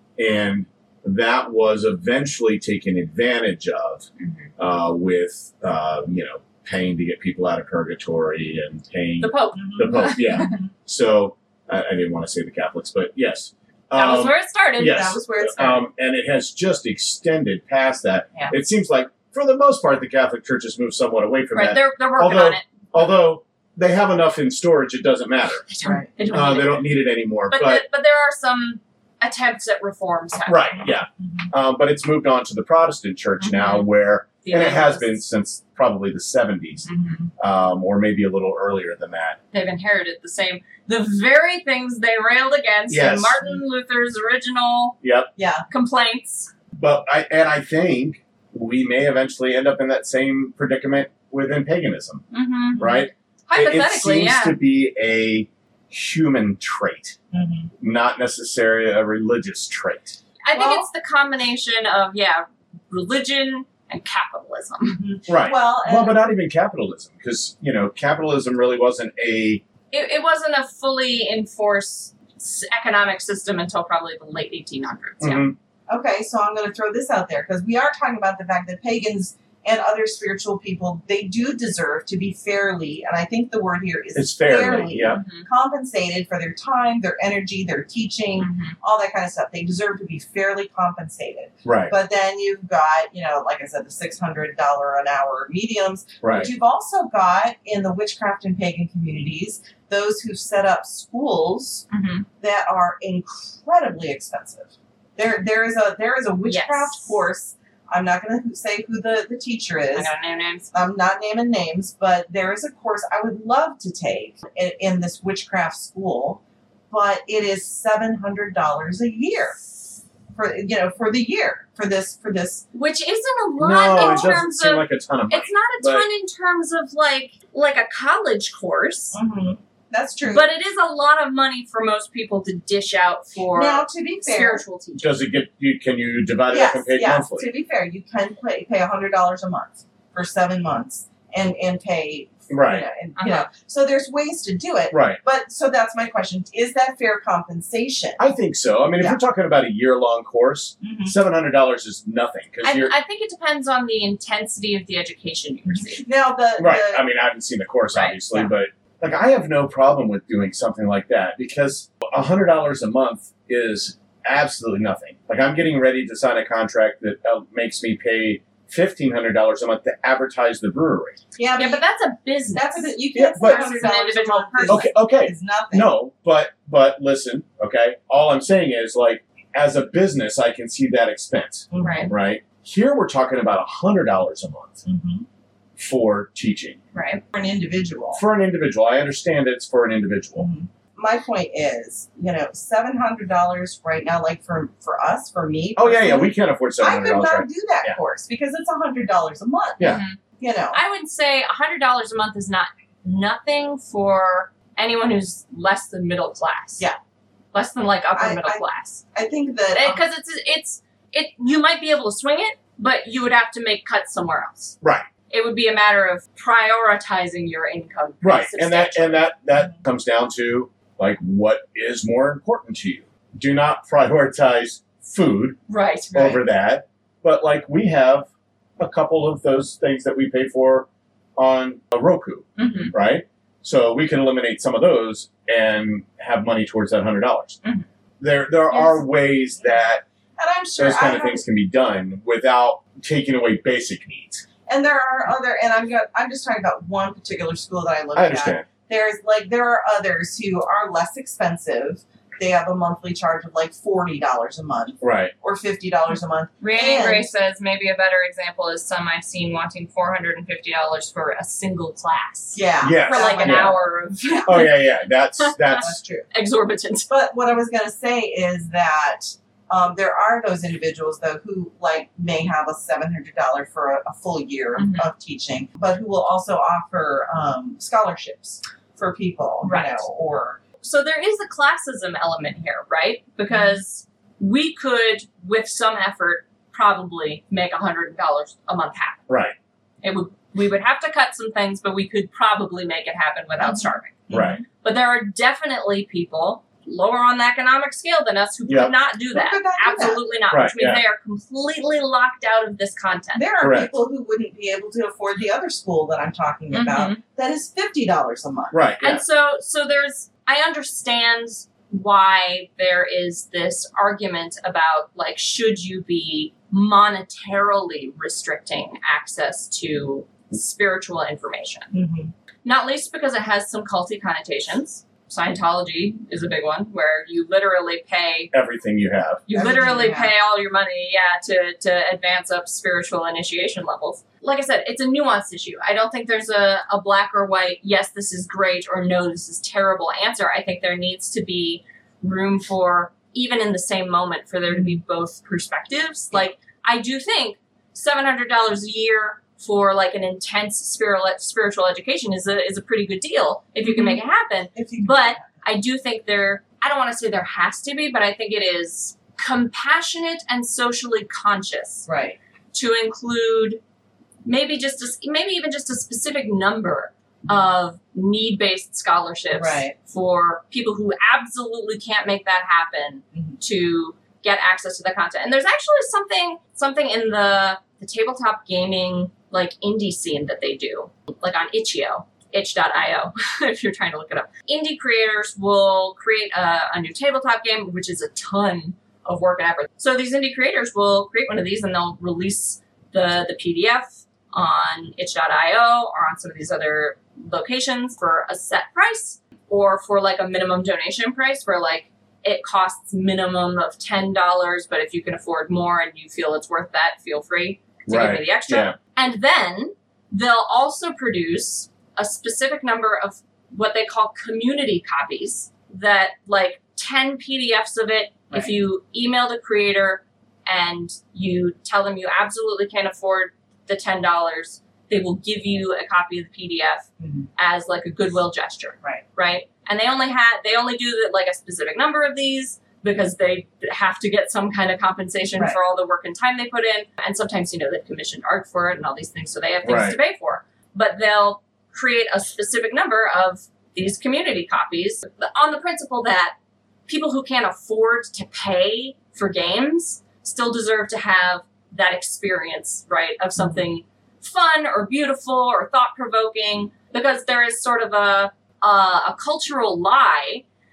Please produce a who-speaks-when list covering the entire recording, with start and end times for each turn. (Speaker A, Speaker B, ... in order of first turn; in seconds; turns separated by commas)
Speaker A: 0.2-25.7, Speaker B: 4.2-4.5, Speaker B: 9.2-10.5, Speaker C: 9.5-10.7, Speaker B: 13.9-15.2, Speaker C: 14.8-15.8, Speaker B: 21.5-23.0, Speaker B: 25.7-26.9, Speaker C: 25.8-26.1, Speaker A: 26.3-27.8, Speaker B: 27.5-30.9, Speaker A: 30.5-36.9, Speaker C: 31.2-31.5, Speaker B: 33.4-33.9, Speaker B: 34.4-35.2, Speaker C: 36.9-37.3, Speaker A: 37.4-39.4, Speaker B: 39.5-45.0, Speaker A: 42.9-43.4, Speaker A: 45.0-45.3, Speaker C: 45.4-45.6, Speaker B: 45.7-46.5, Speaker A: 46.7-52.2, Speaker B: 52.3-52.8, Speaker C: 52.8-53.1, Speaker A: 52.8-57.2, Speaker B: 53.5-54.6, Speaker C: 57.3-57.7, Speaker A: 57.8-60.2, Speaker B: 60.4-65.0, Speaker C: 60.5-60.9, Speaker C: 64.9-66.2, Speaker A: 65.3-69.6, Speaker B: 69.9-75.5, Speaker A: 75.2-75.5, Speaker C: 75.9-101.8, Speaker A: 84.1-85.2, Speaker B: 85.1-85.5, Speaker B: 88.4-88.8, Speaker A: 91.6-91.9, Speaker A: 96.2-96.5, Speaker B: 101.9-102.2, Speaker C: 102.4-110.1, Speaker B: 106.4-107.2, Speaker B: 109.9-110.7, Speaker C: 110.7-119.6, Speaker C: 120.3-122.7, Speaker B: 122.7-129.2, Speaker A: 123.6-126.1, Speaker C: 129.1-130.4, Speaker B: 130.2-135.2, Speaker C: 133.5-134.6, Speaker A: 135.0-137.5, Speaker C: 136.5-148.2, Speaker A: 142.5-142.9, Speaker B: 143.2-143.5, Speaker A: 144.9-145.2, Speaker A: 148.2-152.9, Speaker C: 150.8-151.1, Speaker B: 152.6-156.1, Speaker C: 155.7-157.0, Speaker A: 156.6-171.2, Speaker C: 171.4-171.8, Speaker B: 171.6-174.9, Speaker C: 172.5-175.9, Speaker A: 173.1-173.8, Speaker A: 174.7-184.8, Speaker C: 181.7-182.1, Speaker B: 181.8-182.1, Speaker C: 184.8-185.2, Speaker A: 185.8-186.8, Speaker B: 186.9-187.2, Speaker C: 187.3-188.2, Speaker A: 188.1-190.5, Speaker C: 190.4-200.8, Speaker A: 195.8-198.0, Speaker B: 199.8-200.2, Speaker B: 200.7-206.8, Speaker B: 207.5-209.0, Speaker C: 208.1-210.0, Speaker B: 209.7-214.8, Speaker A: 214.8-215.1, Speaker B: 215.3-219.3, Speaker A: 218.2-225.6, Speaker B: 225.7-226.4, Speaker A: 226.1-237.6, Speaker B: 232.6-232.9, Speaker A: 238.2-240.0, Speaker C: 240.4-241.4, Speaker A: 240.8-244.4, Speaker C: 244.7-257.3, Speaker A: 248.1-248.7, Speaker A: 255.0-255.3, Speaker B: 256.6-264.8, Speaker C: 262.5-264.6, Speaker A: 262.8-263.7, Speaker A: 264.4-265.9, Speaker B: 265.4-267.1, Speaker C: 265.8-266.3, Speaker C: 267.1-280.6, Speaker B: 274.8-275.1, Speaker B: 279.6-280.0, Speaker B: 280.8-289.2, Speaker A: 289.3-289.5, Speaker B: 290.0-294.2, Speaker C: 293.6-294.6, Speaker A: 294.3-294.6, Speaker B: 294.8-303.4, Speaker A: 298.7-298.9, Speaker C: 299.3-300.2, Speaker A: 300.5-301.0, Speaker C: 303.3-308.8, Speaker A: 303.6-303.9, Speaker B: 306.7-307.2, Speaker A: 308.7-309.2, Speaker B: 309.0-321.9, Speaker C: 321.9-322.3, Speaker B: 322.6-328.5, Speaker A: 328.5-329.4, Speaker B: 329.5-362.1, Speaker C: 329.5-330.3, Speaker C: 344.7-345.0, Speaker C: 353.8-354.2, Speaker C: 354.7-355.5, Speaker C: 362.1-362.4, Speaker B: 362.7-363.8, Speaker B: 364.4-427.1, Speaker C: 369.5-369.9, Speaker C: 373.3-373.6, Speaker A: 408.1-409.0, Speaker C: 427.2-427.5, Speaker B: 427.6-446.5, Speaker A: 439.8-440.2, Speaker B: 447.1-460.6